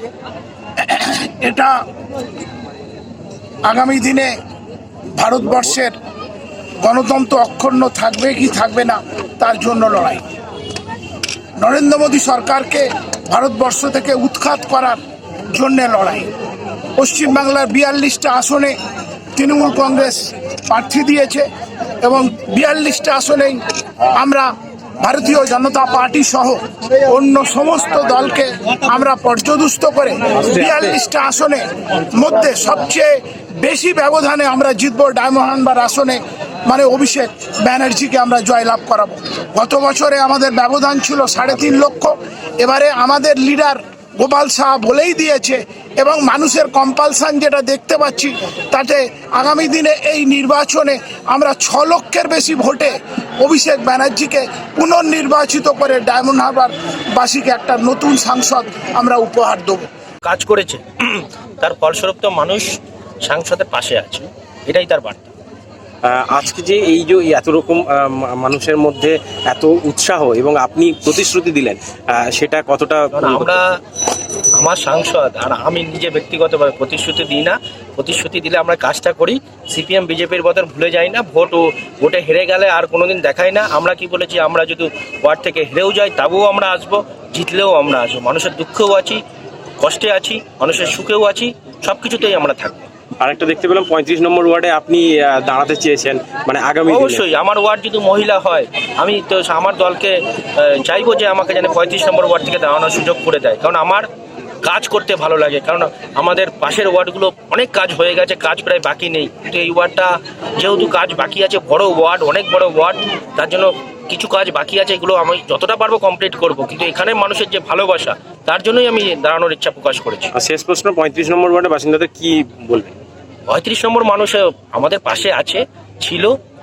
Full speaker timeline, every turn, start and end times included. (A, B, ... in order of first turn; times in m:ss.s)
0:00.8-0:01.7 A
0:03.7-0:04.3 A
0:05.2-0:05.9 A
0:06.8-0:10.2 A
0:11.6-0:15.0 A
0:15.5-0:16.3 A
0:17.0-0:18.7 A
0:19.4-0:21.4 A
0:22.0-0:23.6 A
0:24.2-0:59.8 A
1:00.2-1:02.7 B
1:03.2-1:05.3 B
1:06.1-1:13.5 C
1:13.1-1:13.6 B
1:14.5-1:29.2 B
1:29.8-1:32.9 B
1:33.2-1:37.2 C
1:36.9-1:44.0 B
1:44.6-2:00.3 B
2:00.4-2:03.0 C
2:03.5-2:06.3 B